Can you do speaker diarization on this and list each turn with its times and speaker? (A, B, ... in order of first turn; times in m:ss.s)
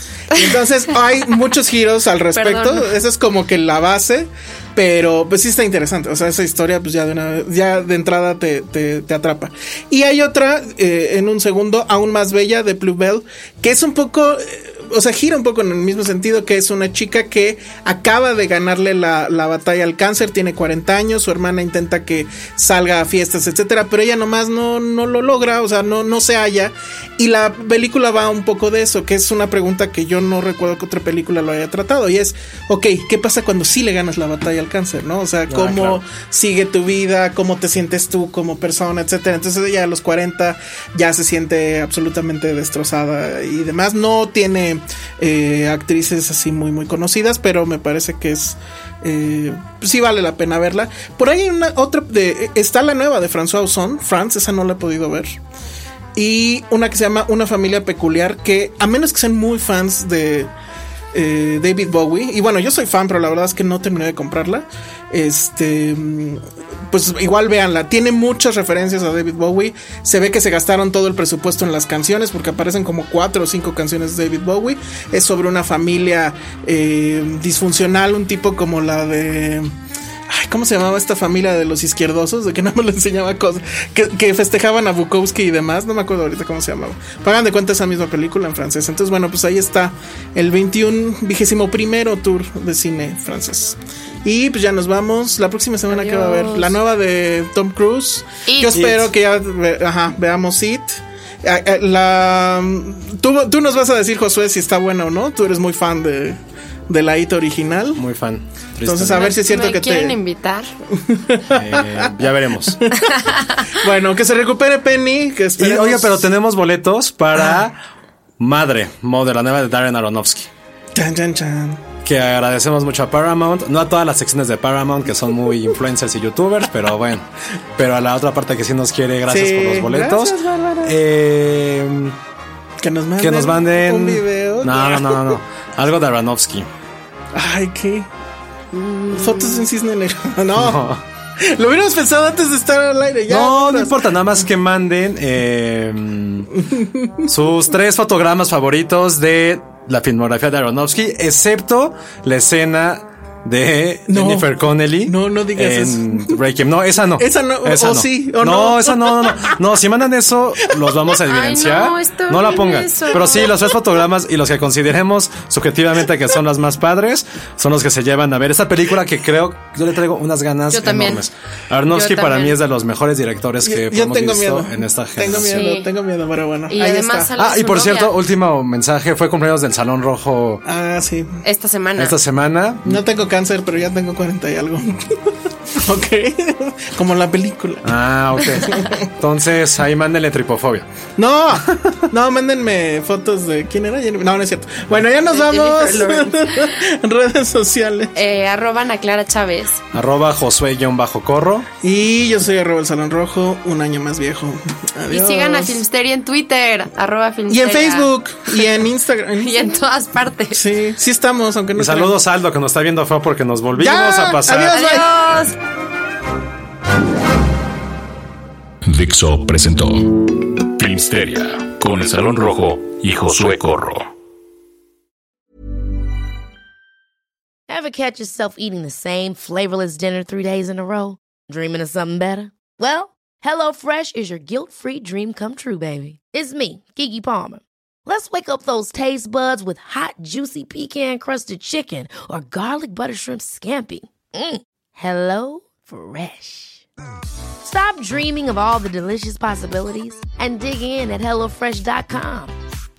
0:00.3-0:55.4 A
0:02.3-0:02.9 B
0:35.5-0:36.0 C
0:56.1-1:00.5 A
1:01.1-1:19.7 A
1:20.3-1:46.4 A
1:35.9-1:36.7 B
1:38.5-1:38.9 B
1:38.7-1:39.1 C
1:46.9-1:48.0 A
1:48.0-1:49.3 C
1:48.8-1:50.2 A
1:49.1-1:50.7 B
1:50.9-1:52.1 A
1:51.5-1:52.8 C
1:52.8-1:53.2 A
1:53.0-1:53.7 B
1:53.7-1:56.3 A
1:55.6-1:57.8 C
1:57.3-1:57.6 A
1:58.4-2:00.5 C
2:00.9-2:01.8 A
2:02.0-2:12.2 C
2:09.3-2:10.9 A
2:12.8-2:15.4 A
2:13.2-2:16.7 C
2:17.3-2:18.1 A
2:18.7-2:19.7 B
2:19.1-2:20.9 A
2:20.5-2:21.0 C
2:21.4-2:24.0 A
2:23.3-2:26.6 C
2:26.6-2:27.3 A
2:27.2-2:55.7 C
2:34.1-2:34.5 A
2:35.0-2:36.3 A
2:37.2-2:39.5 A
2:41.2-2:43.5 B
2:50.7-2:51.2 B
2:51.9-2:52.6 B
2:53.6-2:57.3 A
2:55.2-2:55.9 B
2:56.7-2:58.1 B
2:57.4-3:00.6 C
3:00.6-3:01.4 A
3:01.4-3:02.2 B
3:02.0-3:03.0 C
3:02.8-3:09.1 A
3:07.8-3:10.9 C
3:11.2-3:18.1 A
3:15.3-3:16.7 B
3:18.1-3:19.8 B
3:19.9-3:21.7 C
3:21.8-3:25.8 A
3:25.1-3:28.7 B
3:27.5-3:29.7 A
3:29.4-3:30.6 B
3:30.5-3:32.2 A
3:31.7-3:34.8 C
3:33.8-3:35.1 A
3:34.5-3:35.5 B
3:38.8-3:44.1 D
3:47.7-4:06.8 E
4:07.6-4:12.5 E